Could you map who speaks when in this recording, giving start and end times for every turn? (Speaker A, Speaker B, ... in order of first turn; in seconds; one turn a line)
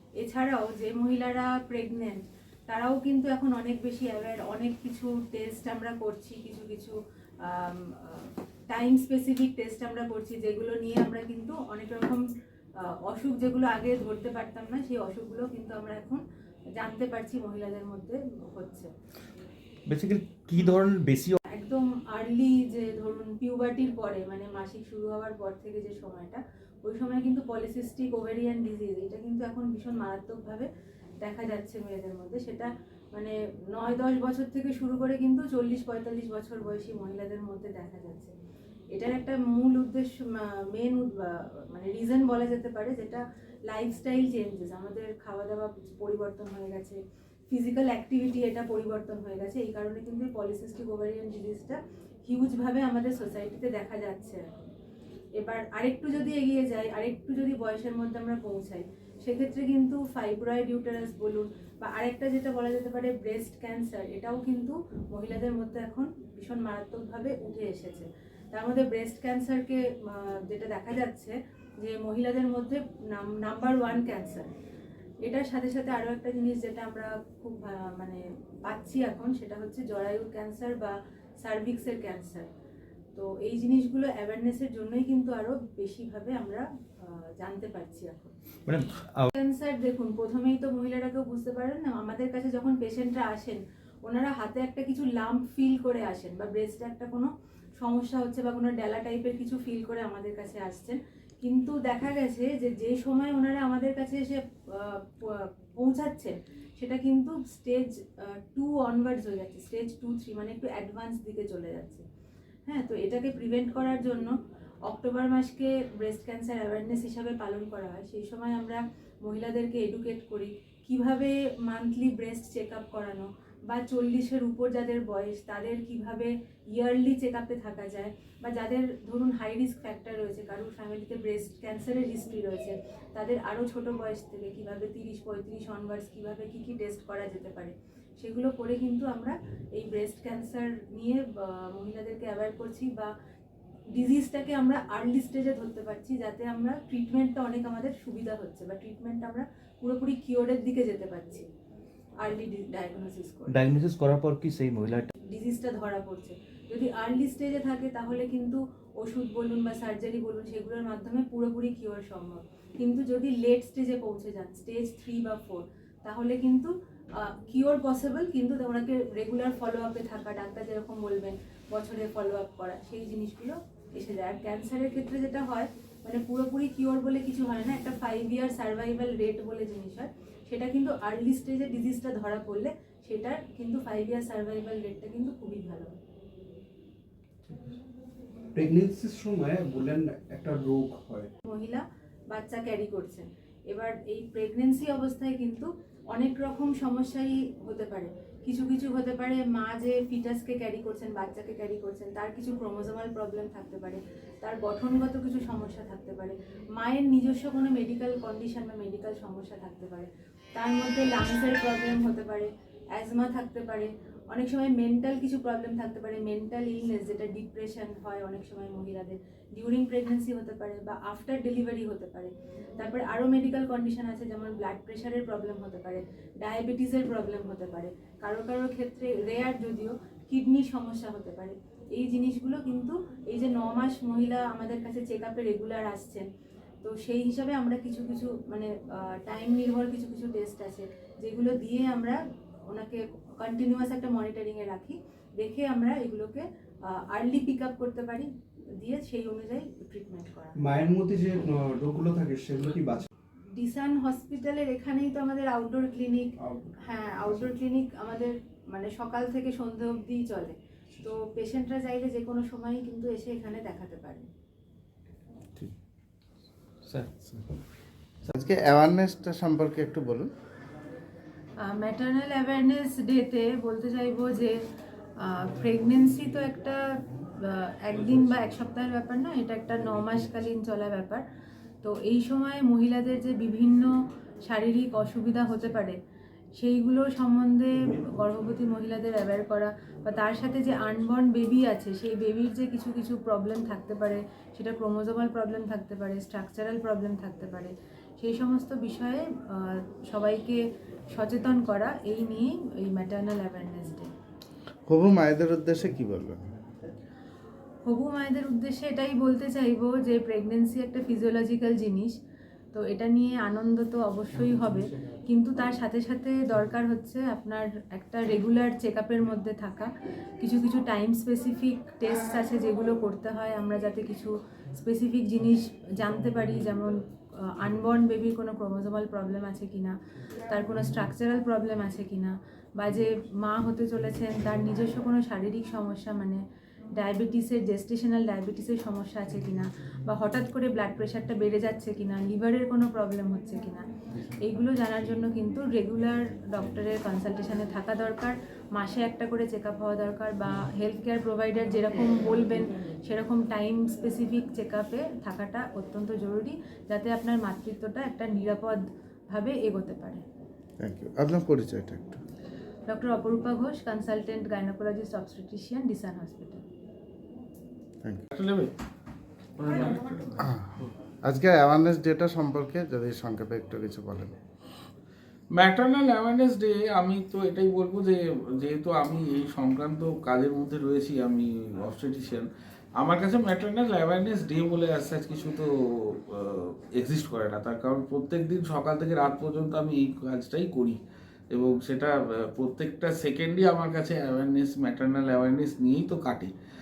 Speaker A: 0.2-12.2
Speaker A: 12.8-16.2
Speaker A: 16.8-18.9
Speaker B: 19.9-21.4
Speaker A: 21.5-30.7
Speaker A: 31.2-38.3
Speaker A: 38.9-47.0
Speaker A: 47.5-54.4
Speaker A: 55.4-74.5
Speaker A: 75.3-82.5
Speaker A: 83.1-88.3
Speaker B: 88.7-89.3
Speaker A: 89.3-97.3
Speaker A: 97.8-112.0
Speaker A: 112.7-114.3
Speaker A: 114.9-143.1
Speaker A: 143.9-151.4
Speaker A: 152.2-153.6
Speaker B: 153.5-155.1
Speaker A: 155.3-166.7
Speaker A: 167.2-185.9
Speaker C: 188.5-191.3
Speaker A: 191.5-236.2
Speaker A: 236.8-242.2
Speaker A: 242.7-248.3
Speaker A: 248.8-250.7
Speaker C: 250.6-253.1
Speaker A: 253.6-264.3
Speaker C: 256.4-257.3
Speaker D: 268.3-270.3
Speaker A: 271.6-274.6
Speaker A: 275.2-281.2
Speaker A: 281.8-283.9
Speaker A: 284.4-286.0
Speaker A: 286.6-300.6
Speaker A: 301.1-304.1
Speaker D: 304.9-306.5
Speaker A: 307.9-312.1
Speaker A: 312.7-329.9
Speaker A: 330.5-336.4
Speaker A: 337.0-360.2
Speaker D: 360.8-362.2
Speaker A: 362.9-366.6
Speaker E: 368.3-368.7
Speaker E: 369.6-370.3
Speaker D: 370.4-374.3
Speaker E: 375.5-391.0
Speaker E: 391.5-396.5